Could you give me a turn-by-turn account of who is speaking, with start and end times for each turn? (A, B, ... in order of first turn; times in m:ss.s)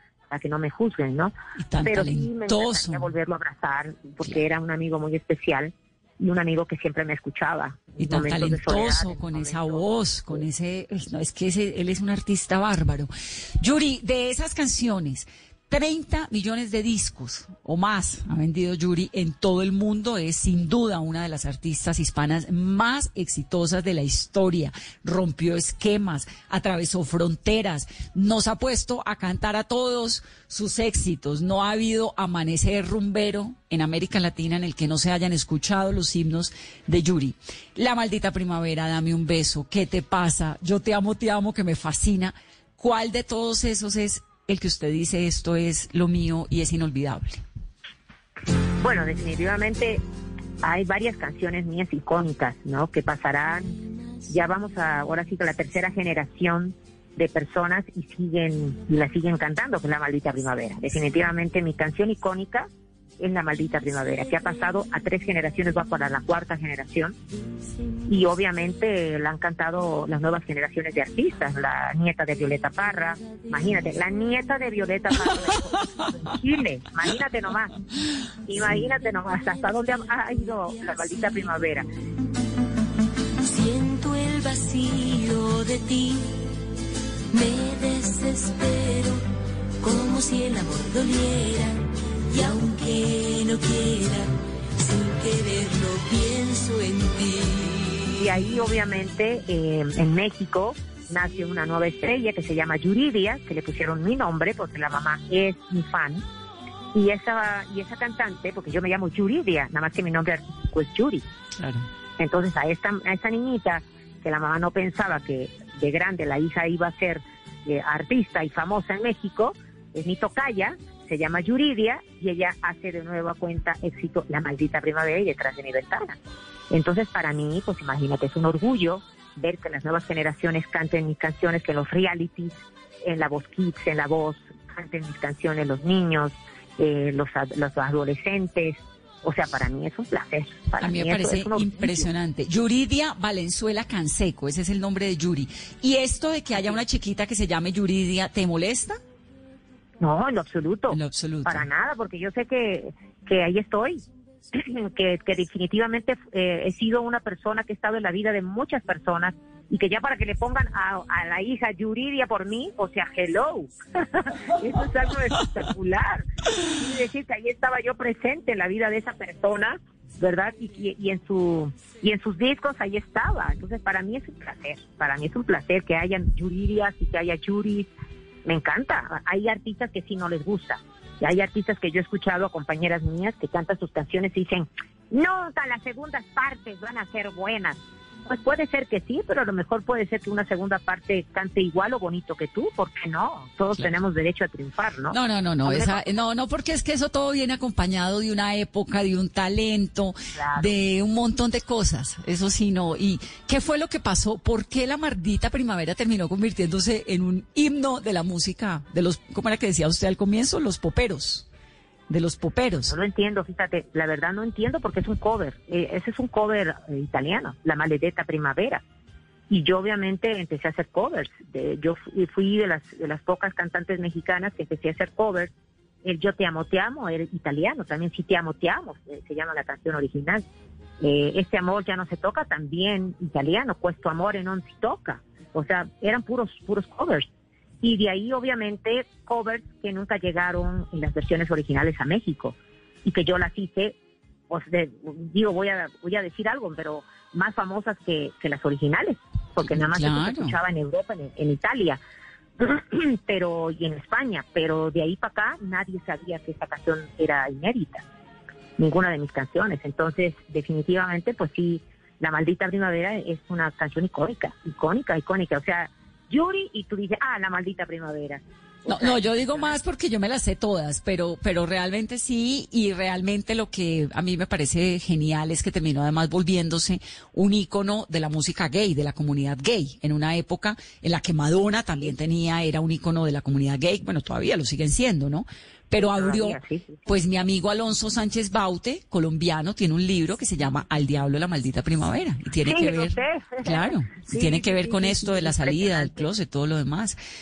0:00.3-0:10.4 A
0:01.6-0:03.1 B
0:08.0-0:13.1 B
0:13.6-0:47.4 B
0:48.8-0:50.0 A
0:50.6-0:53.8 A
0:54.3-1:02.7 A
1:03.2-1:07.2 A
1:08.1-1:17.7 A
1:18.5-1:21.9 A
1:23.4-1:26.4 C
1:27.3-1:29.2 C
1:29.8-1:38.1 C
1:38.2-1:46.2 A
1:46.9-1:51.2 A
1:51.6-1:51.9 B
1:52.2-2:06.2 A
2:06.7-2:22.1 A
2:20.8-2:29.0 B
2:30.0-2:34.0 A
2:30.9-2:31.7 B
2:34.5-2:57.9 A
2:58.4-3:16.2 A
3:15.1-3:31.5 B
3:20.4-3:20.8 A
3:32.1-3:33.0 B
3:32.9-3:38.8 A
3:39.5-3:45.5 A
3:46.0-3:50.4 A
3:51.0-3:57.3 A
3:57.8-4:04.0 A
4:04.5-4:12.0 A
4:09.7-4:10.6 B
4:12.6-4:18.0 A
4:18.8-4:29.8 A
4:28.9-4:57.2 B
4:46.0-4:47.1 A
4:52.6-4:56.3 A